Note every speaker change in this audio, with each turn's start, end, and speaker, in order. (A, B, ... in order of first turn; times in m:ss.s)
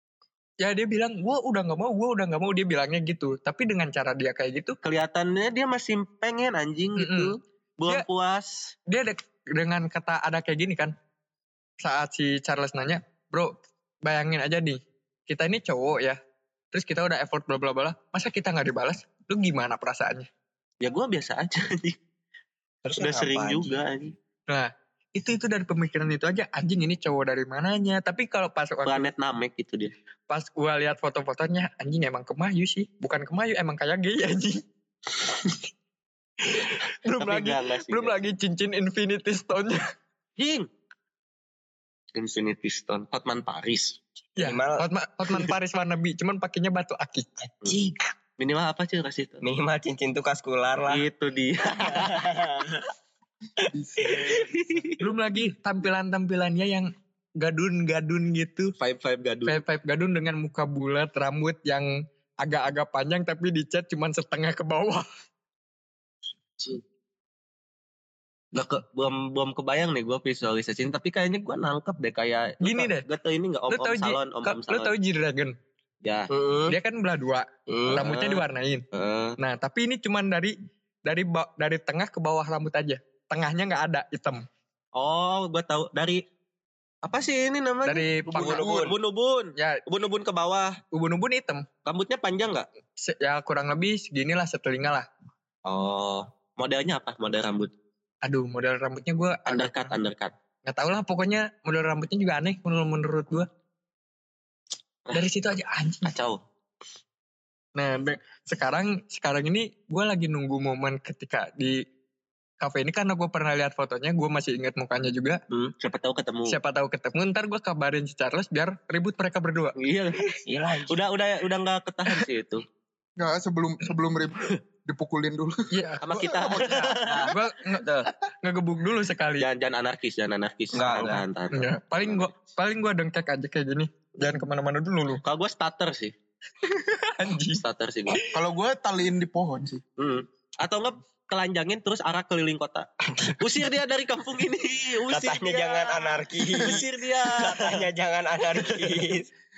0:00.6-0:04.8 A
0:04.8-0:08.7 B
0:07.0-0:07.3 A
0:08.9-0:10.9 A
0:11.8-0:13.5 A
0:14.0-0:16.2 A
0:16.7-0:20.3 A
0:20.8-0:22.0 B
0:22.8-0:23.8 C
0:23.0-0:24.1 B
0:24.5-0:29.1 A
0:28.8-0:29.9 B
0:30.3-0:34.6 A
0:36.5-0:39.8 A
0:37.2-0:38.2 B
0:40.4-0:40.7 B
0:42.1-0:44.0 B
0:44.4-0:47.3 A
0:44.4-0:44.8 C
0:47.4-0:48.0 C
0:48.4-0:49.4 B
0:49.4-0:51.0 C
0:50.9-0:52.4 B
0:51.8-0:52.8 C
0:53.6-0:54.5 D
0:54.0-0:54.4 C
0:54.3-0:54.9 B
0:55.0-0:58.7 A
0:58.8-0:59.6 B
0:59.4-1:01.9 A
1:02.4-1:05.1 A
1:08.5-1:14.9 B
1:12.6-1:13.0 A
1:13.7-1:15.5 A
1:16.0-1:16.3 B
1:16.3-1:16.8 C
1:16.7-1:18.8 A
1:17.7-1:18.0 C
1:17.9-1:19.4 B
1:19.4-1:24.4 A
1:24.9-1:26.2 B
1:27.0-1:30.8 B
1:27.8-1:28.6 A
1:28.3-1:29.0 C
1:28.5-1:28.8 D
1:29.6-1:29.8 A
1:30.9-1:31.6 A
1:31.8-1:32.7 B
1:33.0-1:35.1 A
1:35.6-1:37.7 B
1:38.2-1:39.9 A
1:39.5-1:40.3 B
1:40.7-1:43.5 A
1:45.1-1:46.1 A
1:46.0-1:46.4 B
1:47.8-1:51.8 A
1:52.6-1:55.4 A
1:55.6-1:56.6 B
1:56.5-1:59.8 A
1:59.8-2:00.2 B
2:00.3-2:01.0 C
2:00.9-2:02.6 B
2:03.2-2:07.1 D
2:05.7-2:07.8 A
2:06.0-2:07.3 B
2:07.0-2:08.1 C
2:08.4-2:09.4 A
2:09.4-2:12.3 B
2:10.7-2:11.2 C
2:11.5-2:15.2 A
2:15.2-2:16.1 B
2:16.6-2:17.6 A
2:17.6-2:18.2 B
2:18.3-2:19.8 D
2:20.0-2:27.9 B
2:25.1-2:29.3 C
2:28.5-2:29.1 B